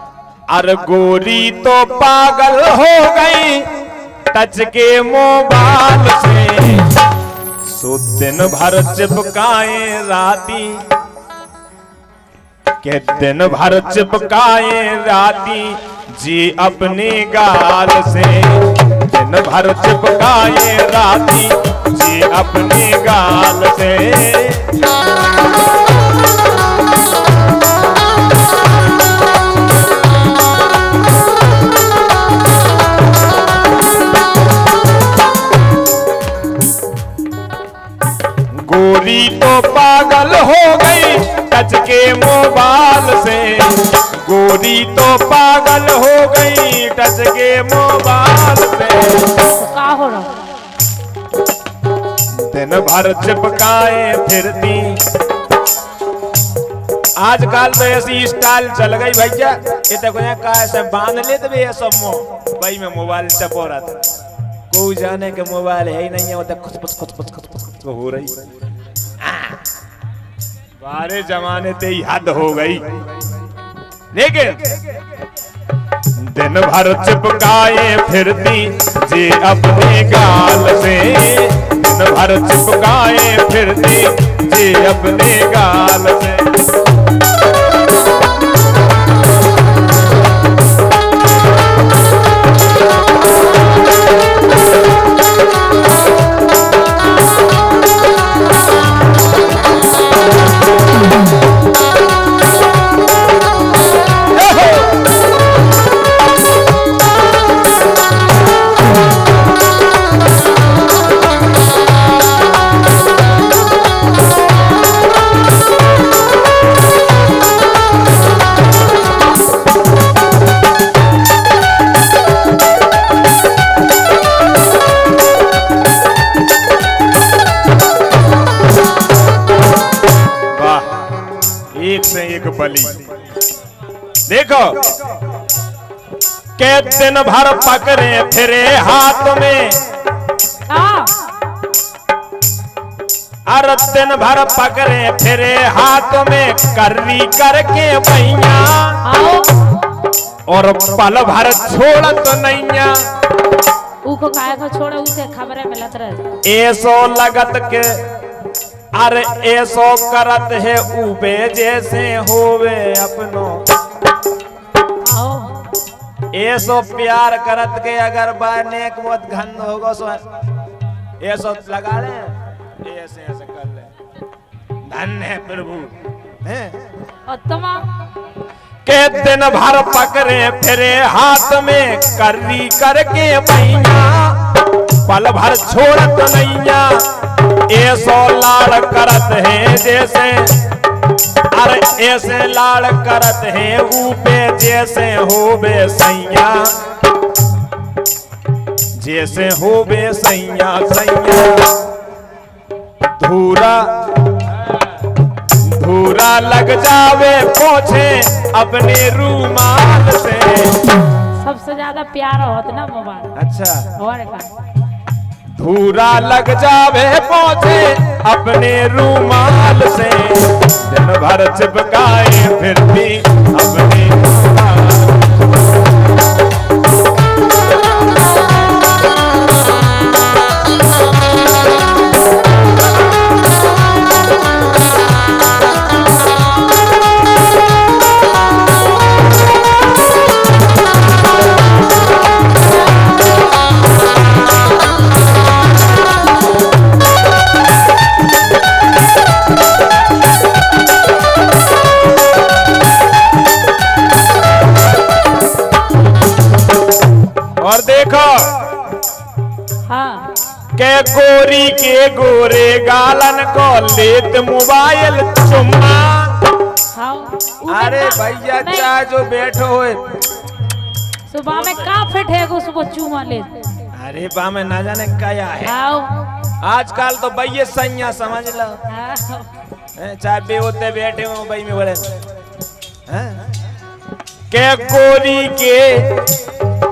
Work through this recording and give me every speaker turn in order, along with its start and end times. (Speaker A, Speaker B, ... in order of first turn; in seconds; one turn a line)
Speaker A: 0.5-3.7
Speaker A: 4.3-6.9
Speaker A: 7.7-10.8
Speaker A: 12.8-24.7
Speaker A: 38.5-49.4
Speaker B: 49.4-50.3
Speaker A: 52.4-55.0
Speaker A: 57.2-64.0
Speaker A: 64.7-68.4
Speaker A: 69.3-69.6
Speaker A: 70.8-73.0
Speaker A: 74.1-74.8
Speaker A: 76.2-86.5
Speaker A: 130.5-131.0
Speaker A: 131.7-133.0
Speaker A: 134.3-135.0
Speaker A: 136.6-139.8
Speaker B: 140.7-141.3
Speaker A: 143.5-149.0
Speaker B: 149.0-149.8
Speaker A: 150.5-153.0
Speaker B: 154.0-156.3
Speaker A: 156.4-158.1
Speaker A: 158.9-163.6
Speaker B: 165.0-165.7
Speaker A: 166.3-170.2
Speaker A: 171.2-173.9
Speaker A: 174.9-176.7
Speaker B: 177.3-177.9
Speaker A: 178.8-187.1
Speaker A: 187.7-190.6
Speaker A: 191.5-196.8
Speaker A: 199.0-201.8
Speaker A: 203.2-204.6
Speaker A: 205.5-210.8
Speaker B: 211.3-213.3
Speaker A: 213.3-213.9
Speaker B: 214.0-214.5
Speaker A: 215.5-225.2
Speaker A: 257.6-258.8
Speaker B: 259.9-260.4
Speaker A: 260.8-266.4
Speaker B: 266.9-268.9
Speaker A: 267.7-270.2
Speaker B: 271.3-273.6
Speaker A: 273.9-275.8
Speaker B: 275.6-276.3
Speaker A: 276.6-278.8
Speaker B: 278.9-279.5
Speaker A: 280.0-282.2
Speaker A: 283.1-283.4
Speaker A: 284.5-286.3